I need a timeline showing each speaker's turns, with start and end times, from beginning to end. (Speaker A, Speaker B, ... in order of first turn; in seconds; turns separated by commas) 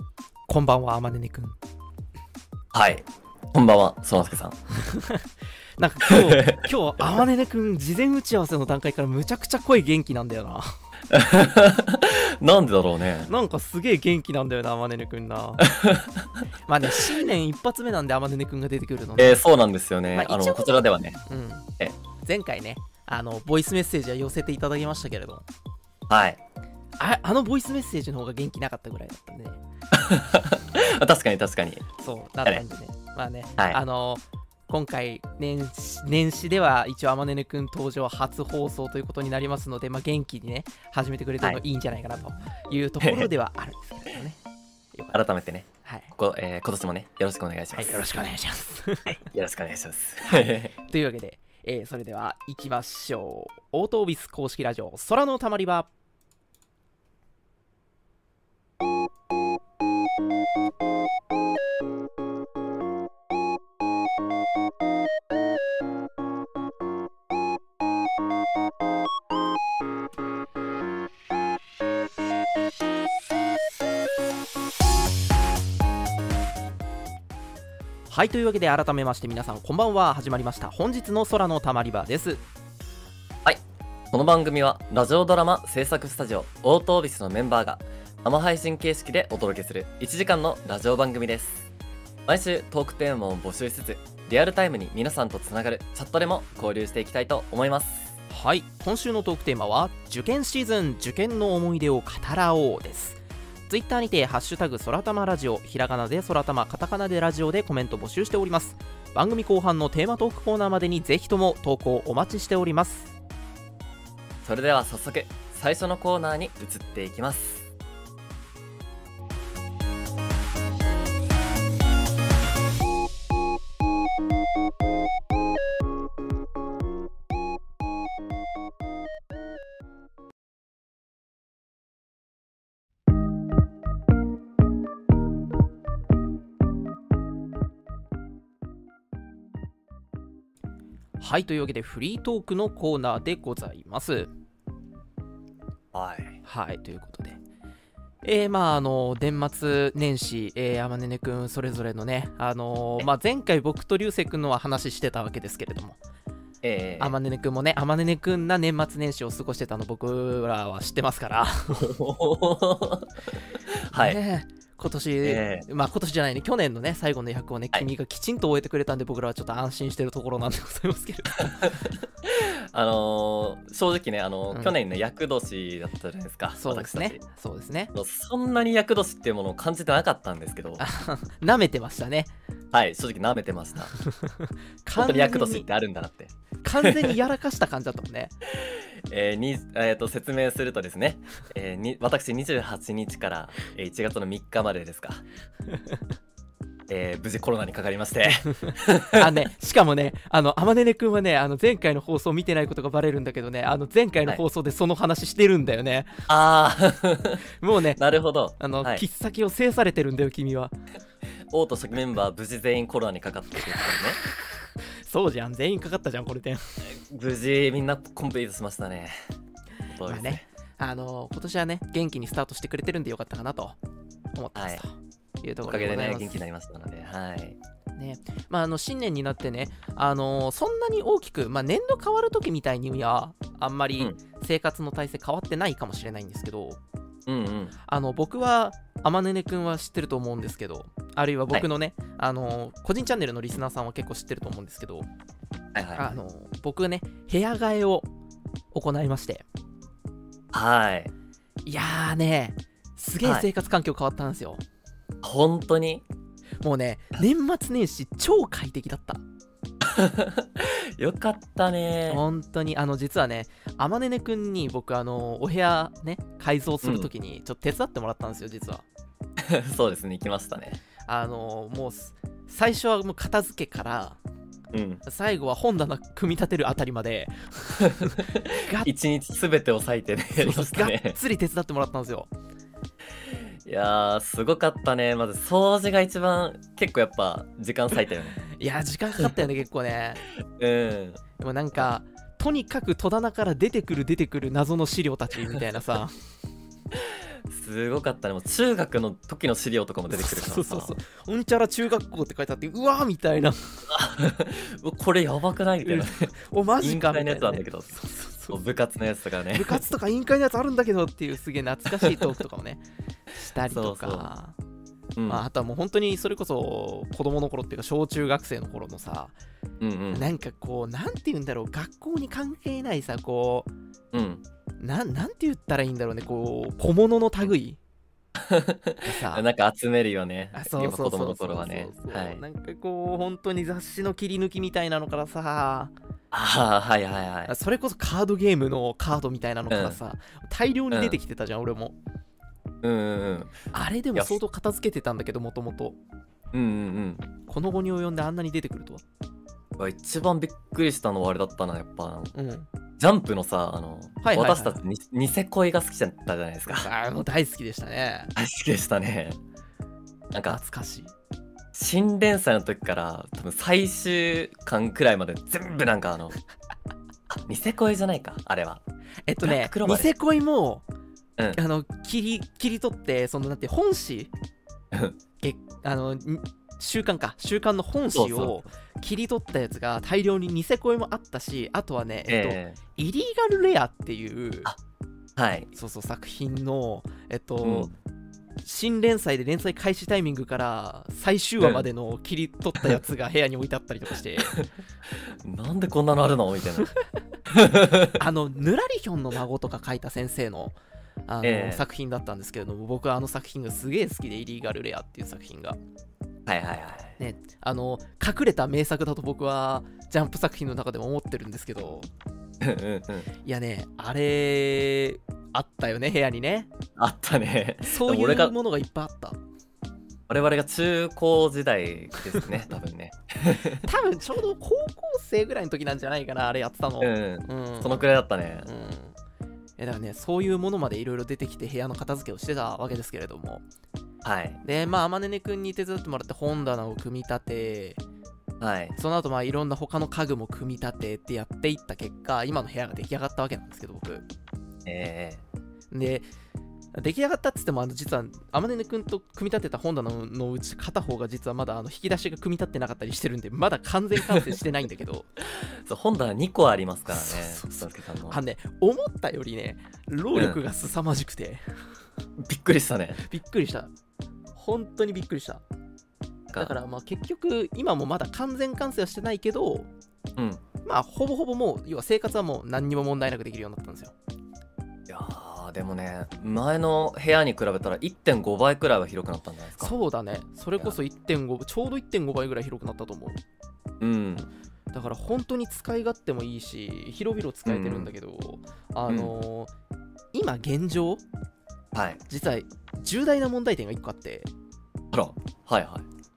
Speaker A: 0.5-1.6, Speaker B: 2.7-4.6, Speaker A: 4.7-5.3, Speaker A: 5.8-10.8, Speaker B: 6.1-6.6, Speaker B: 11.1-13.3, Speaker A: 13.3-15.7, Speaker B: 15.6-16.3, Speaker A: 16.7-19.4, Speaker B: 19.2-21.2, Speaker A: 20.1-25.4, Speaker B: 26.1-26.4, Speaker A: 27.0-29.6, Speaker B: 29.9-31.9, Speaker A: 32.0-44.4, Speaker B: 43.0-43.3, Speaker A: 44.9-45.2, Speaker B: 45.1-48.0, Speaker A: 45.9-46.1, Speaker A: 47.7-49.2, Speaker B: 49.1-50.7, Speaker A: 50.3-55.9, Speaker A: 78.1-82.4, Speaker B: 83.5-91.7, Speaker B: 92.3-98.0, Speaker A: 98.3-113.1, Speaker B: 114.4-117.7, Speaker A: 141.2-144.3, Speaker B: 145.9-146.4, Speaker A: 146.4-147.4, Speaker A: 148.2-156.0, Speaker B: 156.6-157.2, Speaker A: 157.0-161.9, Speaker B: 161.7-164.2, Speaker A: 163.9-171.7, Speaker B: 165.2-165.7, Speaker B: 171.5-177.2, Speaker A: 176.6-177.9, Speaker B: 177.9-180.8, Speaker A: 180.8-182.3, Speaker B: 182.7-183.9, Speaker A: 184.0-185.7, Speaker B: 184.9-187.1, Speaker A: 186.6-188.3, Speaker B: 188.5-195.2, Speaker B: 196.9-199.3, Speaker A: 198.5-206.2, Speaker B: 206.3-207.4, Speaker A: 207.6-208.0, Speaker B: 208.0-209.0, Speaker A: 208.6-210.8, Speaker B: 211.5-214.2, Speaker A: 215.0-216.9, Speaker B: 216.8-219.1, Speaker B: 219.9-220.5, Speaker A: 220.1-223.8, Speaker A: 224.3-226.4, Speaker B: 224.6-224.8, Speaker B: 225.7-227.6, Speaker A: 228.0-236.8, Speaker B: 237.3-237.7, Speaker A: 237.9-245.1, Speaker B: 245.7-246.1, Speaker A: 246.0-248.1, Speaker A: 248.7-249.5, Speaker B: 250.5-251.1, Speaker A: 251.7-254.6, Speaker B: 255.2-256.1, Speaker A: 256.6-259.2, Speaker B: 259.8-262.2, Speaker A: 262.1-268.9, Speaker B: 266.8-267.1, Speaker B: 269.4-270.8, Speaker A: 271.1-274.2, Speaker B: 274.7-275.0, Speaker A: 275.1-278.9, Speaker B: 277.8-281.2, Speaker A: 280.4-282.3, Speaker B: 283.2-288.4, Speaker A: 288.5-290.2, Speaker B: 290.4-291.2, Speaker A: 291.4-296.2, Speaker B: 296.9-300.9, Speaker A: 300.1-303.9, Speaker B: 303.9-308.0, Speaker A: 305.8-308.6, Speaker B: 308.5-309.8, Speaker A: 309.5-314.6, Speaker B: 313.7-314.3, Speaker B: 315.2-315.4, Speaker A: 315.3-319.4, Speaker B: 319.8-320.3, Speaker A: 320.1-323.7, Speaker B: 324.1-324.4, Speaker A: 324.8-327.8, Speaker B: 328.4-332.4, Speaker A: 329.0-329.5, Speaker A: 330.5-335.9, Speaker B: 336.3-337.5, Speaker A: 337.5-341.9, Speaker B: 339.7-340.0, Speaker B: 340.9-341.2, Speaker B: 342.8-343.6, Speaker A: 343.7-346.0, Speaker B: 346.5-347.3, Speaker A: 347.5-349.1, Speaker B: 349.8-352.3, Speaker A: 352.4-352.7, Speaker B: 353.0-356.9, Speaker A: 354.2-354.8, Speaker A: 356.7-358.3, Speaker B: 358.4-359.4, Speaker B: 360.3-360.6, Speaker A: 360.5-361.1, Speaker B: 361.7-366.4, Speaker B: 367.3-368.8, Speaker A: 369.3-370.9, Speaker B: 369.4-370.1, Speaker A: 371.5-374.3, Speaker B: 374.9-375.2, Speaker A: 375.4-384.7, Speaker B: 378.1-378.6, Speaker B: 382.3-382.8, Speaker B: 385.4-385.7, Speaker A: 385.7-387.9, Speaker B: 387.6-387.9, Speaker A: 388.6-394.6, Speaker B: 394.5-396.9, Speaker B: 397.5-398.2, Speaker A: 398.1-400.8, Speaker A: 401.3-405.8, Speaker B: 401.4-401.8, Speaker B: 406.5-407.2, Speaker A: 407.2-412.1, Speaker B: 412.6-413.3, Speaker A: 413.4-416.7, Speaker B: 417.0-418.5, Speaker A: 417.9-419.4, Speaker B: 420.3-423.9, Speaker A: 423.8-428.1, Speaker B: 427.0-428.7, Speaker A: 428.6-429.2, Speaker A: 429.8-433.6, Speaker B: 434.2-434.6, Speaker A: 434.6-438.0, Speaker B: 438.6-438.9, Speaker A: 439.0-444.3, Speaker B: 444.9-445.4, Speaker A: 445.9-446.3, Speaker A: 446.9-455.3, Speaker B: 455.6-458.4, Speaker A: 457.1-461.6, Speaker B: 460.4-460.6, Speaker B: 462.4-463.2, Speaker A: 463.2-463.9, Speaker A: 464.6-465.6, Speaker B: 466.5-466.8, Speaker A: 466.6-469.9, Speaker B: 470.4-470.6, Speaker A: 470.9-474.1, Speaker B: 475.1-479.9, Speaker A: 479.8-483.4, Speaker B: 484.0-484.5, Speaker A: 484.9-489.7, Speaker B: 487.7-488.1, Speaker A: 490.3-491.2, Speaker B: 491.9-492.2, Speaker A: 492.3-494.5, Speaker B: 495.1-496.1